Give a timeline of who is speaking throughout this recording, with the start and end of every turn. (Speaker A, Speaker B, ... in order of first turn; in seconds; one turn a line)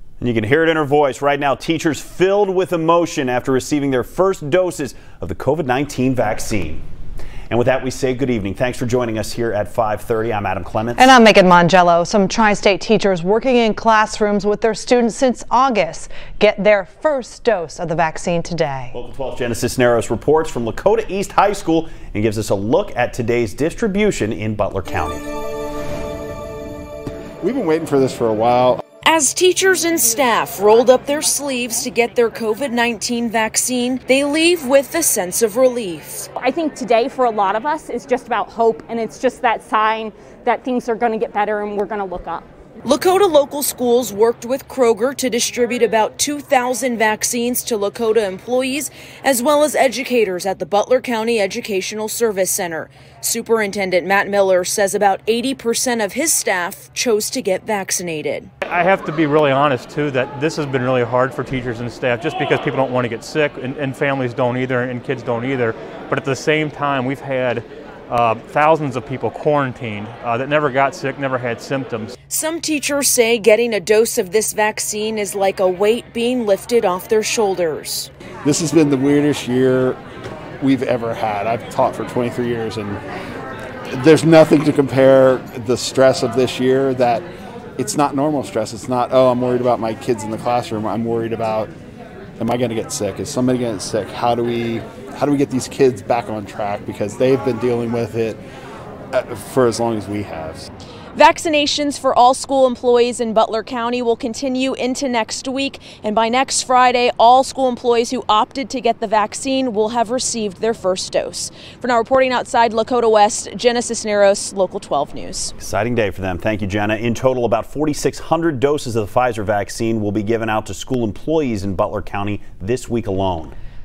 Speaker A: 0.2-6.8
Speaker A: 7.5-11.1
Speaker B: 10.9-18.9
Speaker A: 18.9-25.2
Speaker C: 27.4-28.8
Speaker D: 29.0-36.3
Speaker E: 36.4-42.5
Speaker D: 42.9-58.5
Speaker F: 58.6-72.1
Speaker D: 72.3-78.1
Speaker C: 78.4-80.0
Speaker C: 80.6-83.0
Speaker C: 83.9-87.2
Speaker C: 87.8-91.7
Speaker C: 92.4-98.4
Speaker C: 99.1-100.7
Speaker D: 101.2-115.5
Speaker A: 115.6-123.5